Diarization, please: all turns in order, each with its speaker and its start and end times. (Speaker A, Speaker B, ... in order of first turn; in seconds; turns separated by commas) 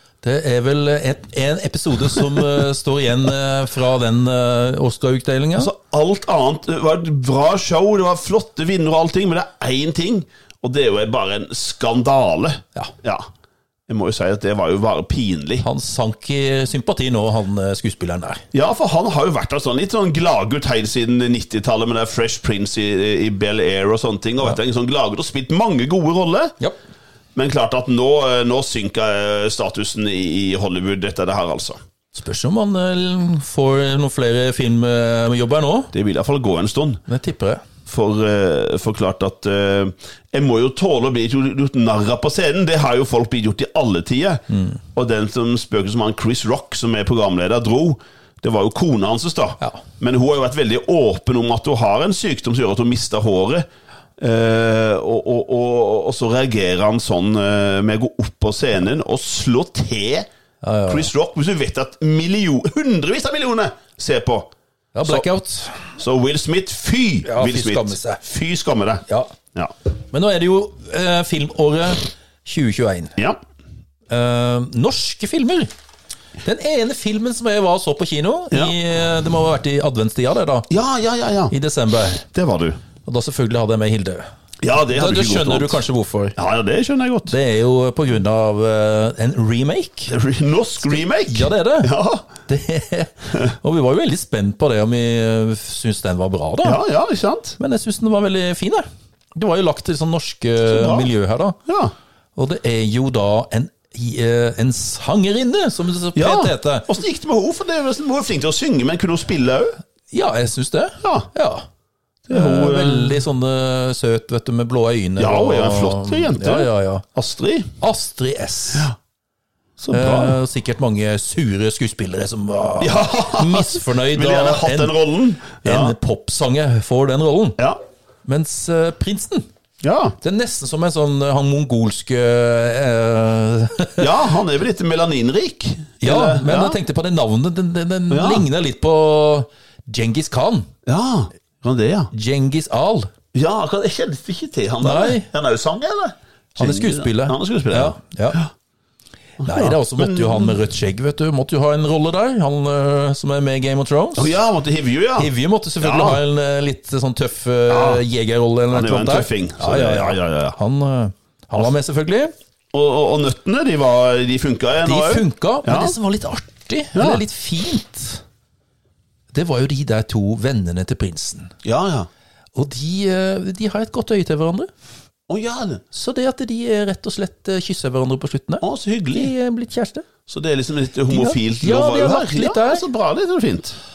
Speaker A: 0.2-5.7, Speaker B: 5.6-13.3, Speaker B: 13.9-15.7, Speaker A: 15.6-18.4, Speaker B: 18.5-26.6, Speaker B: 27.4-31.8, Speaker A: 32.1-35.9, Speaker B: 35.9-37.0, Speaker A: 37.1-37.6, Speaker B: 37.9-44.4, Speaker A: 44.5-44.8, Speaker B: 44.9-53.7, Speaker B: 54.2-60.3, Speaker A: 60.6-61.1, Speaker B: 60.9-64.5, Speaker A: 65.0-66.0, Speaker B: 66.0-69.7, Speaker A: 67.2-68.2, Speaker A: 69.1-69.3, Speaker A: 70.1-73.1, Speaker A: 74.1-75.7, Speaker A: 76.4-80.7, Speaker B: 80.7-81.5, Speaker A: 81.5-82.2, Speaker B: 82.3-82.8, Speaker A: 83.0-84.3, Speaker B: 84.6-85.8, Speaker A: 84.9-86.4, Speaker B: 86.4-87.3, Speaker A: 87.3-90.1, Speaker B: 90.1-92.3, Speaker A: 90.9-91.9, Speaker A: 92.5-96.8, Speaker B: 96.6-97.6, Speaker A: 97.6-101.6, Speaker B: 100.7-101.1, Speaker B: 101.7-101.9, Speaker A: 102.4-106.9, Speaker B: 106.2-109.8, Speaker A: 110.1-111.7, Speaker B: 111.0-111.3, Speaker B: 112.3-113.2, Speaker A: 112.3-117.0, Speaker B: 115.2-117.7, Speaker A: 117.8-118.9, Speaker B: 119.8-120.4, Speaker A: 119.9-124.9, Speaker B: 122.8-126.0, Speaker A: 125.6-127.6, Speaker A: 128.3-129.5, Speaker B: 129.8-130.2, Speaker A: 130.2-134.2, Speaker B: 134.0-136.8, Speaker A: 136.0-140.7, Speaker B: 138.1-138.5, Speaker B: 140.9-142.1, Speaker A: 142.1-143.1, Speaker B: 143.3-148.5, Speaker A: 144.8-145.3, Speaker A: 146.6-148.4, Speaker B: 149.4-150.6, Speaker A: 149.4-154.4, Speaker B: 154.2-156.2, Speaker A: 155.2-162.3, Speaker B: 157.7-158.0, Speaker B: 158.7-160.6, Speaker B: 162.7-165.9, Speaker A: 164.8-168.2, Speaker B: 166.9-167.2, Speaker A: 169.3-171.5, Speaker B: 171.6-172.1, Speaker A: 172.6-174.7, Speaker B: 175.3-175.8, Speaker A: 175.9-180.1, Speaker B: 178.6-179.3, Speaker B: 180.3-183.8, Speaker A: 181.1-182.8